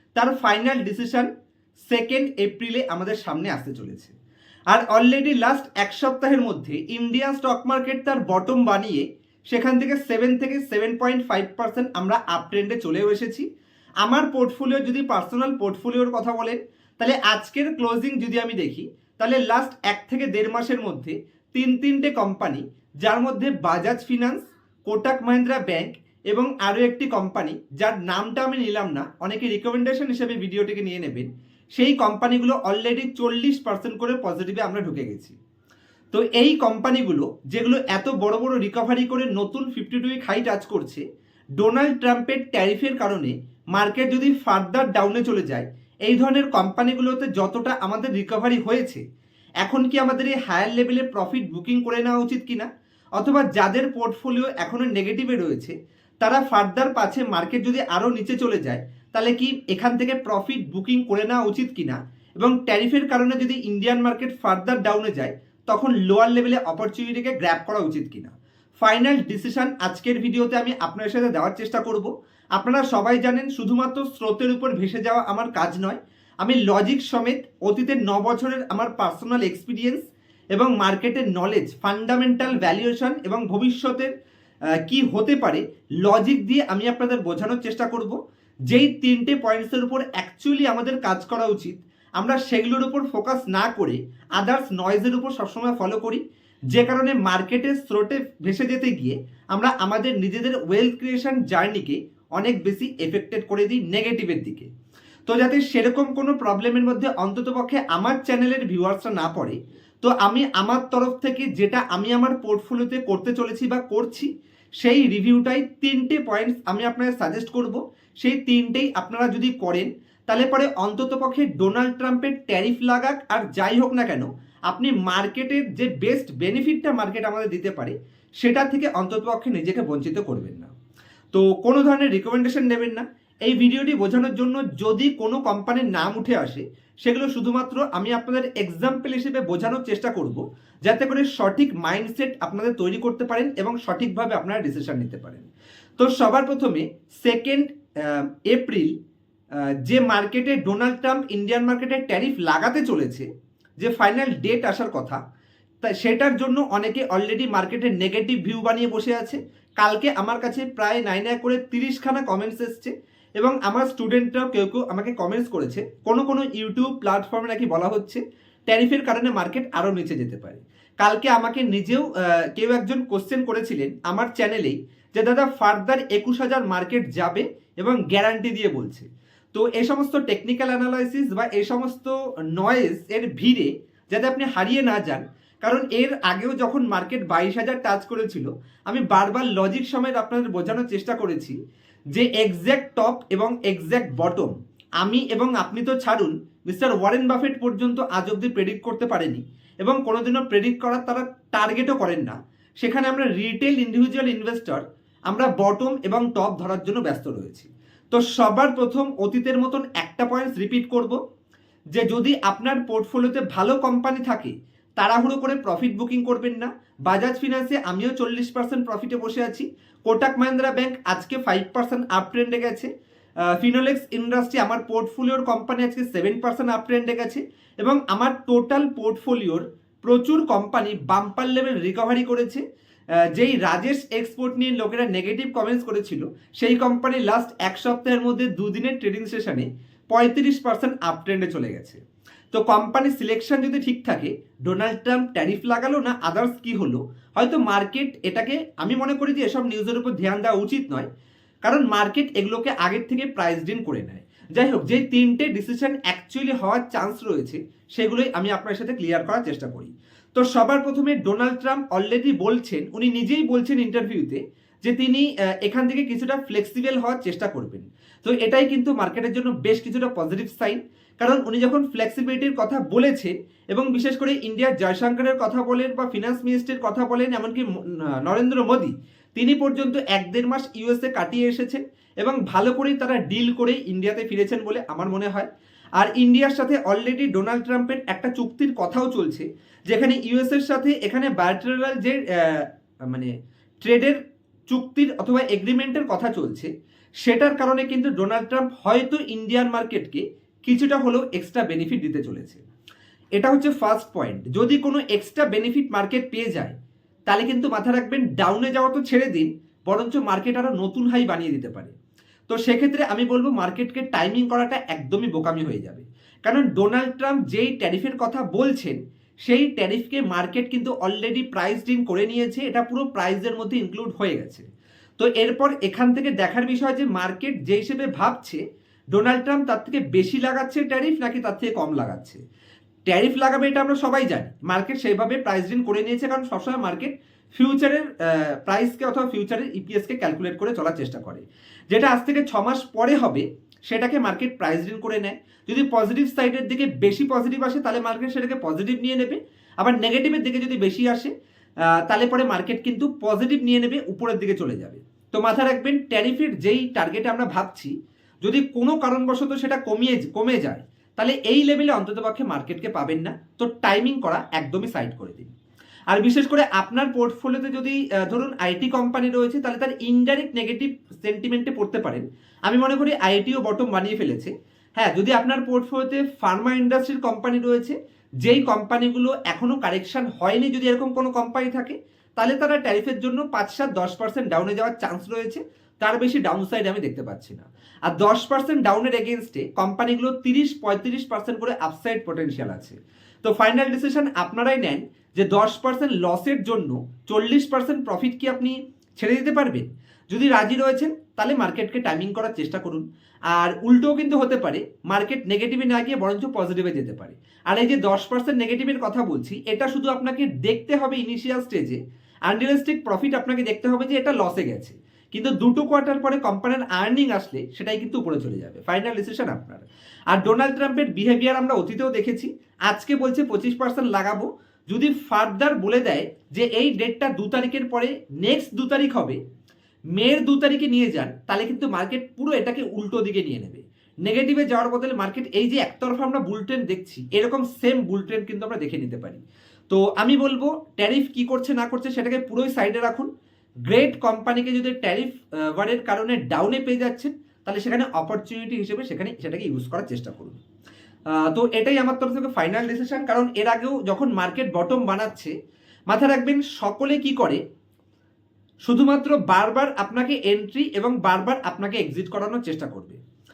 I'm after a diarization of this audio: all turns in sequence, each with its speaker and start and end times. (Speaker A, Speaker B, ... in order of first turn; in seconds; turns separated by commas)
Speaker A: 0.1-1.3, Speaker A: 1.9-4.1, Speaker A: 4.7-13.4, Speaker A: 14.0-35.4, Speaker A: 36.1-41.0, Speaker A: 41.6-49.0, Speaker A: 49.6-52.7, Speaker A: 53.2-84.1, Speaker A: 84.8-88.2, Speaker A: 88.7-96.2, Speaker A: 96.7-104.7, Speaker A: 105.3-114.3, Speaker A: 114.8-130.7, Speaker A: 131.3-148.9, Speaker A: 149.8-153.3, Speaker A: 153.8-155.2, Speaker A: 155.9-191.6, Speaker A: 192.1-211.2, Speaker A: 211.9-222.9, Speaker A: 223.5-232.6, Speaker A: 233.3-242.0, Speaker A: 242.5-251.1, Speaker A: 251.6-277.7, Speaker A: 278.2-285.5, Speaker A: 286.0-293.3, Speaker A: 293.8-294.2, Speaker A: 294.7-296.7, Speaker A: 297.2-302.6, Speaker A: 303.4-306.7, Speaker A: 307.3-311.9, Speaker A: 312.5-324.6, Speaker A: 325.2-328.6, Speaker A: 329.1-332.4, Speaker A: 333.1-351.3, Speaker A: 352.1-365.5, Speaker A: 366.1-429.4, Speaker A: 430.1-443.3, Speaker A: 443.9-450.6, Speaker A: 451.4-455.5, Speaker A: 456.1-457.6, Speaker A: 458.9-463.2